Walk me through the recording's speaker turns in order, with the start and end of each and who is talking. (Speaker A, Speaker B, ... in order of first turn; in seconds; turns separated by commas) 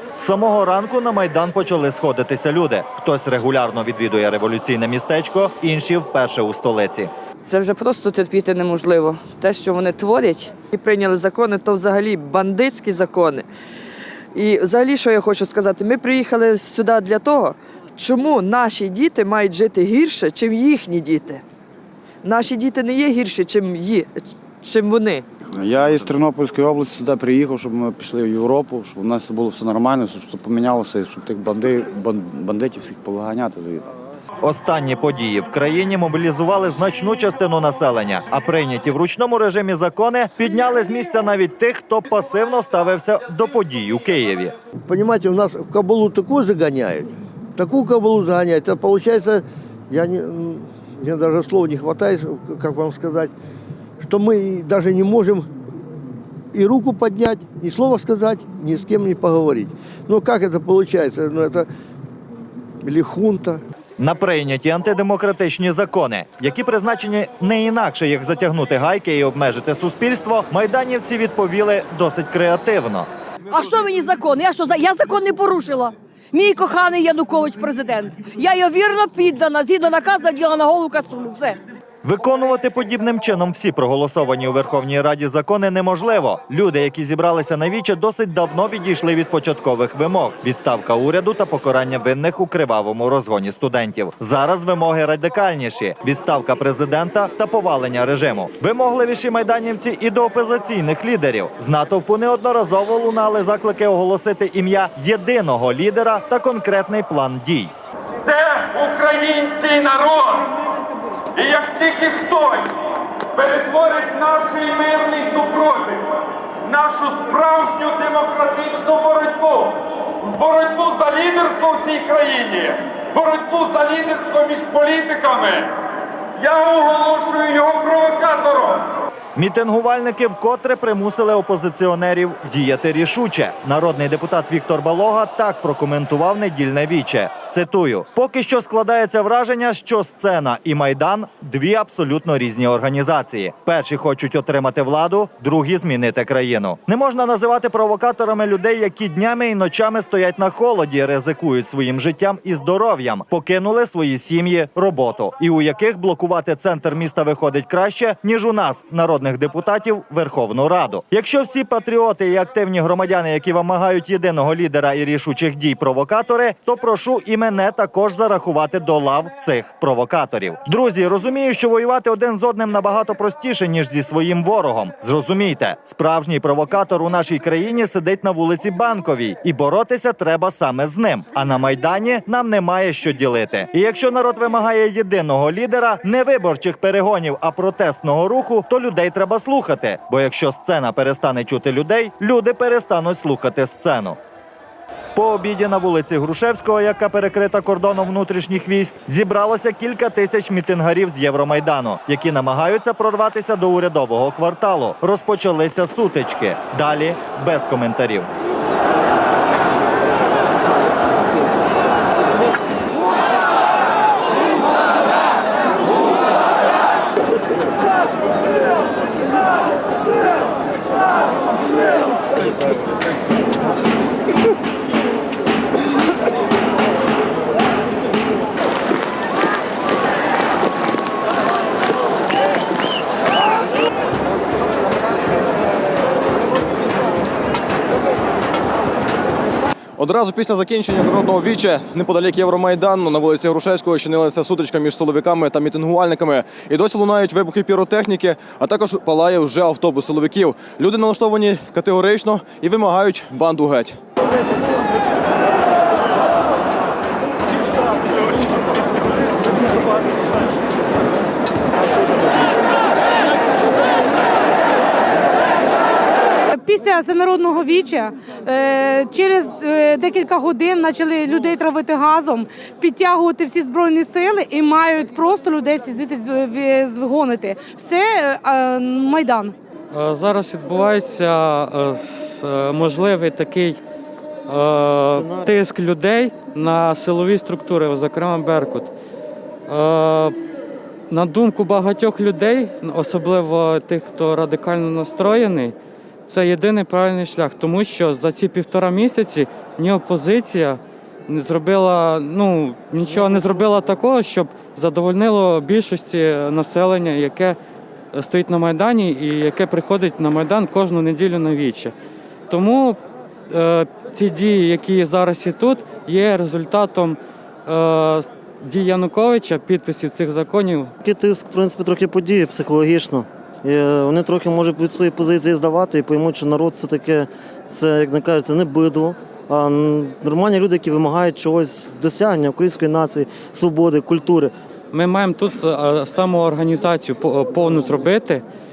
Speaker A: 0.1-7.1, Speaker B: 7.5-13.5, Speaker B: 14.3-21.4, Speaker B: 22.2-25.2, Speaker C: 25.4-33.9, Speaker A: 34.4-44.5, Speaker D: 44.8-53.3, Speaker D: 54.0-55.5, Speaker D: 56.5-61.7, Speaker D: 62.8-63.6, Speaker A: 64.0-73.1, Speaker E: 73.5-81.6, Speaker A: 82.0-107.7, Speaker F: 108.2-110.5, Speaker F: 111.3-125.8, Speaker F: 126.3-128.9, Speaker A: 129.3-194.2, Speaker A: 195.1-208.3, Speaker G: 240.0-254.0, Speaker H: 266.6-279.5, Speaker I: 279.9-283.8, Speaker I: 284.5-288.9, Speaker J: 285.1-285.5, Speaker I: 289.7-290.3, Speaker I: 291.1-295.7, Speaker I: 296.3-307.6, Speaker I: 308.1-311.9, Speaker I: 312.5-313.0, Speaker I: 313.5-320.9, Speaker J: 321.0-334.5, Speaker I: 334.9-338.4